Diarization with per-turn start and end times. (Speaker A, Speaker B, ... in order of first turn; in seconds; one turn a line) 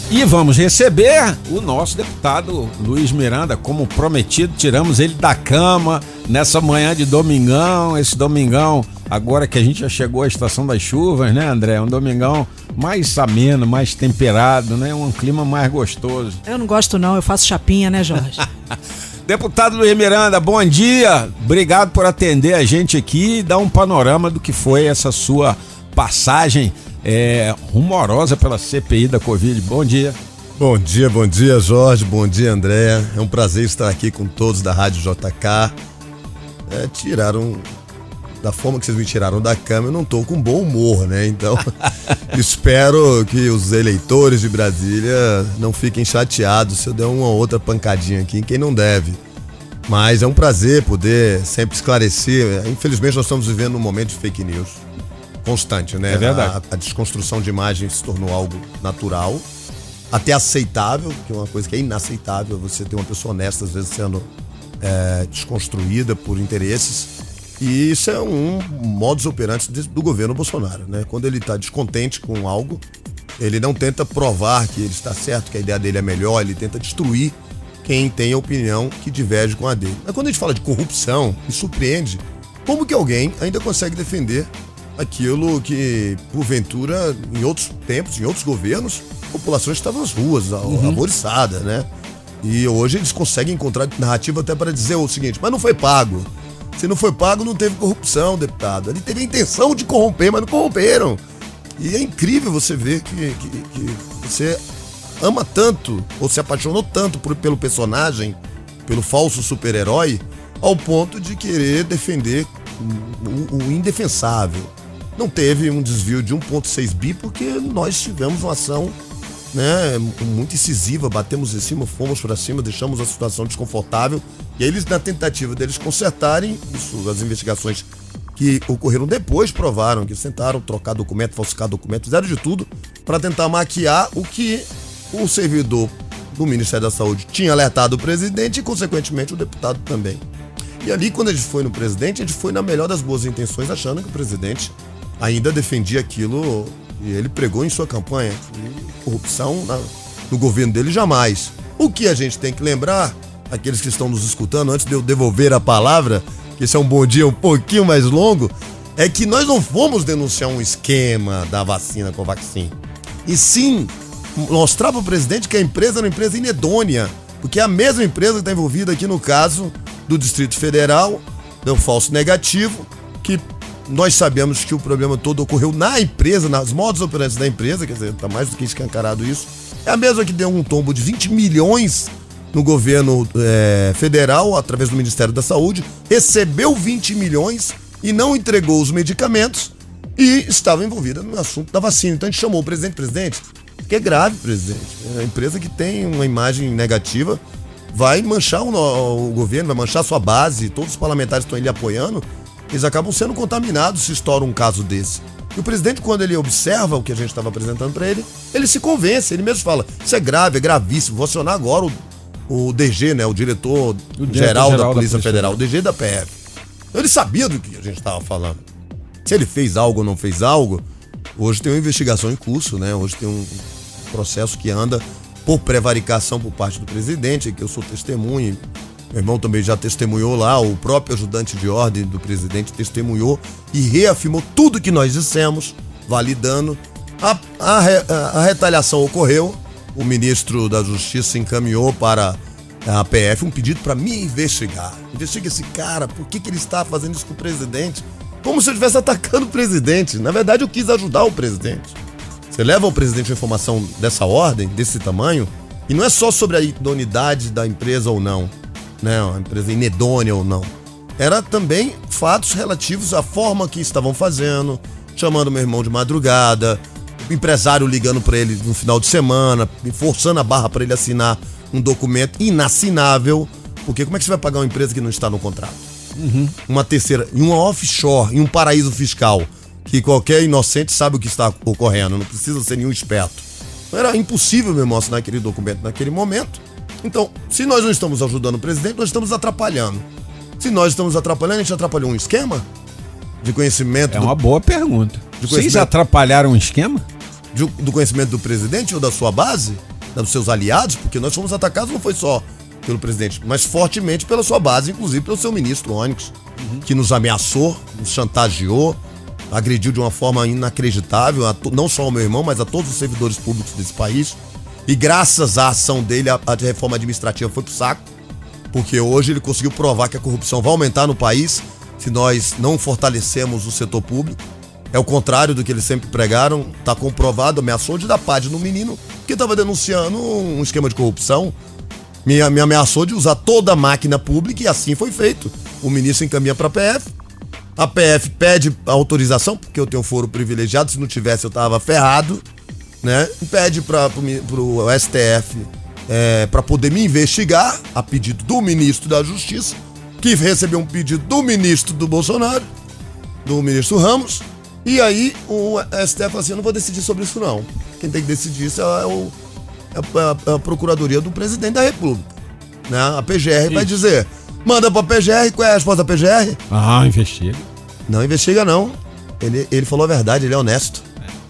Speaker A: 0.1-16.4
Speaker B: 16.5-18.4
Speaker A: 18.7-30.2
Speaker C: 30.6-35.8
Speaker C: 36.7-37.7
Speaker C: 38.4-41.7
Speaker C: 42.3-49.2
Speaker C: 49.9-54.8
Speaker C: 55.4-59.5
Speaker A: 56.1-56.5
Speaker C: 60.1-64.3
Speaker C: 64.8-72.8
Speaker C: 73.4-91.9
Speaker A: 90.7-91.0
Speaker C: 92.4-101.2
Speaker C: 101.8-104.6
Speaker C: 105.2-119.0
Speaker C: 119.5-140.2
Speaker C: 140.8-212.0
Speaker C: 212.5-216.3
Speaker A: 214.2-215.6
Speaker C: 216.9-218.6
Speaker C: 219.2-220.8
Speaker C: 221.4-228.6
Speaker C: 229.1-251.9
Speaker C: 252.5-275.9
Speaker A: 276.2-276.6
Speaker C: 276.7-290.1
Speaker C: 290.6-292.7
Speaker C: 293.4-294.3
Speaker A: 294.1-297.0
Speaker C: 295.4-295.9
Speaker C: 297.5-309.0
Speaker A: 306.6-306.8
Speaker C: 309.5-318.1
Speaker C: 318.7-324.4
Speaker C: 324.9-331.6
Speaker C: 332.2-337.1
Speaker C: 337.8-342.4
Speaker C: 343.0-352.7
Speaker C: 353.4-359.4
Speaker C: 359.9-362.3
Speaker C: 362.9-366.6
Speaker A: 366.7-367.7
Speaker C: 368.1-371.1